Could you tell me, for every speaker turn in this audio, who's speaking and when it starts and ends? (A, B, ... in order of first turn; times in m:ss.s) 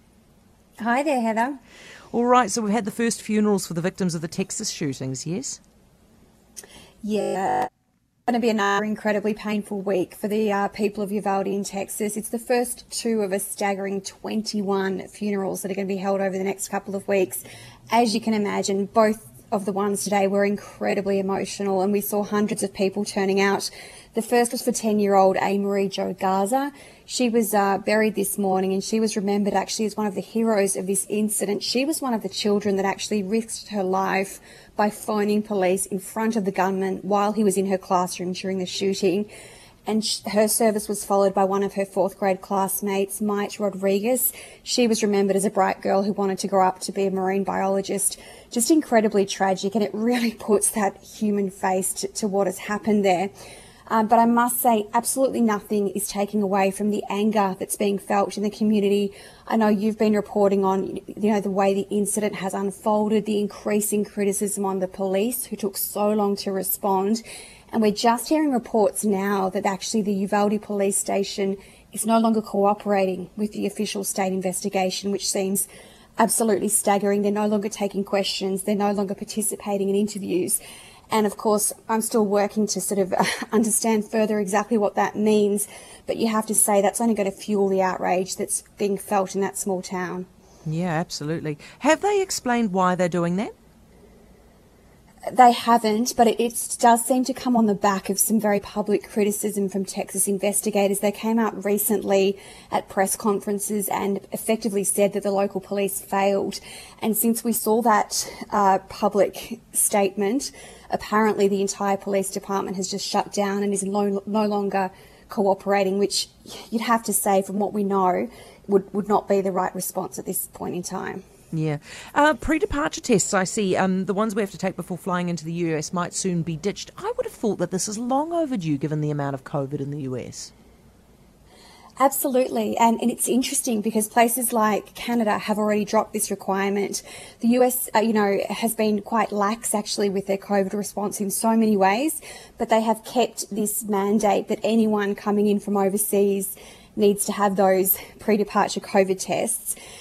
0:00.8-0:01.6 A
0:02.1-0:05.6 B
0:07.0-0:07.7 A
0:08.3-0:39.3 A
0:39.8-0:53.3 A
0:53.9-1:20.6 A
1:21.1-1:30.3 A
1:30.6-1:33.5 B
1:35.3-2:01.2 A
2:01.5-2:10.5 B
2:12.0-2:29.8 A